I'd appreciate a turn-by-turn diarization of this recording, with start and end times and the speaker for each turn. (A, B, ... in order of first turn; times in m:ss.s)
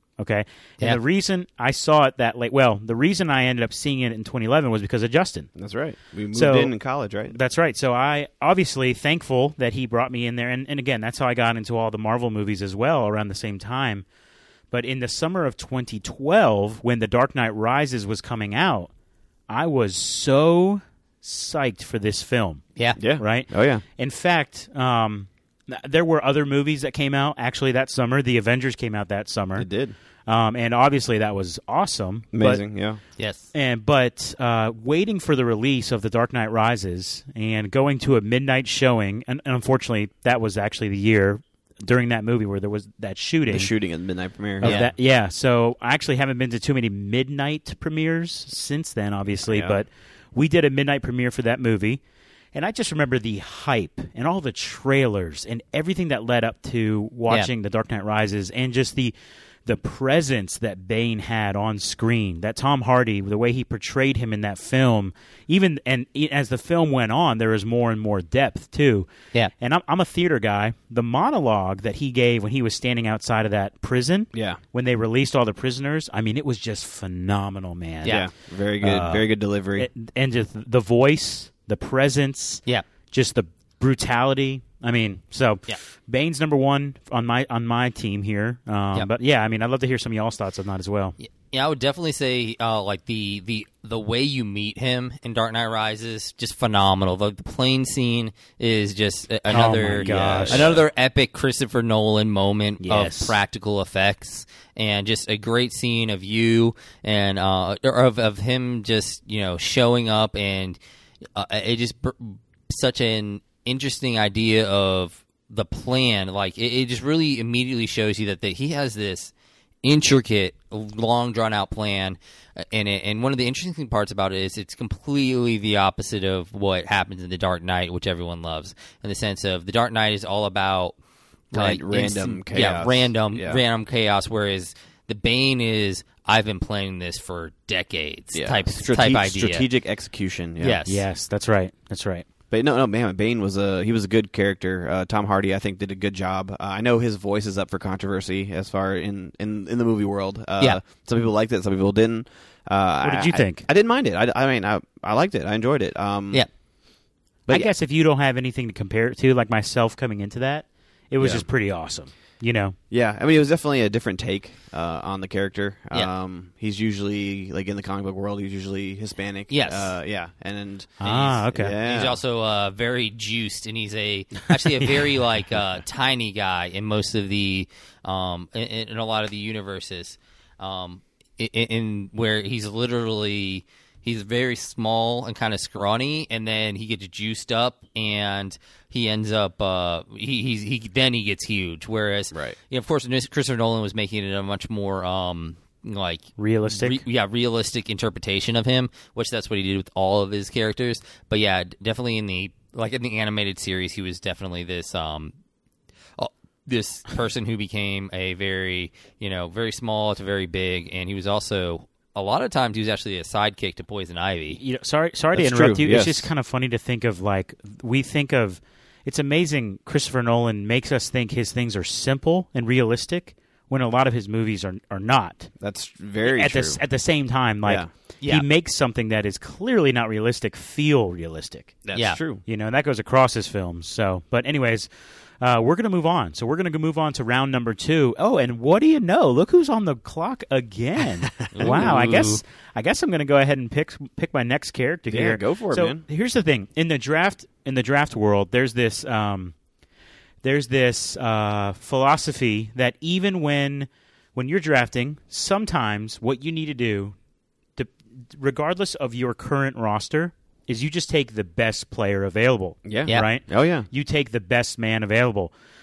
0:00.2-0:05.5 A
0:05.6-0:07.3 B
0:06.3-0:06.7 A
0:07.3-0:14.0 A
0:14.7-0:18.9 A
0:19.5-0:22.6 A
0:23.0-0:23.8 B
0:23.2-0:29.7 A
0:29.6-0:30.0 B
0:30.3-0:32.6 A
0:32.3-0:33.0 B
0:33.2-0:33.5 C
0:33.5-0:43.7 A
0:43.5-0:44.8 B
0:44.6-0:52.0 A
0:44.6-0:44.9 C
0:49.5-0:49.8 B
0:52.5-0:59.1 A
0:59.7-1:09.1 A
1:09.6-1:18.2 A
1:14.3-1:14.6 B
1:18.1-1:19.9 B
1:18.8-1:31.2 A
1:31.2-1:50.8 C
1:39.5-1:40.7 A
1:40.0-1:40.8 B
1:42.8-1:43.4 A
1:51.4-1:59.3 C
1:59.8-2:11.0 C
2:11.5-2:19.7 C
2:11.5-2:13.6 B
2:18.3-2:20.8 B
2:20.6-2:21.0 C
2:20.9-2:22.2 A
2:22.5-2:36.5 B
2:33.0-2:33.6 A
2:37.5-2:42.8 A
2:41.2-2:41.4 B
2:42.9-2:51.0 B
2:49.5-2:49.9 C
2:51.0-2:51.8 A
2:51.0-3:25.3 C
2:51.5-2:52.2 B
3:16.4-3:17.0 A
3:26.2-3:34.6 C
3:34.6-3:45.5 A
3:35.3-3:36.3 B
3:45.6-3:46.8 B
3:46.2-3:51.8 A
3:47.6-3:47.9 B
3:51.8-3:52.4 B
3:52.4-4:09.6 A
4:01.4-4:02.0 B
4:01.5-4:02.4 C
4:05.1-4:06.0 B
4:10.4-4:17.2 A
4:17.8-4:25.5 A
4:22.8-4:23.9 B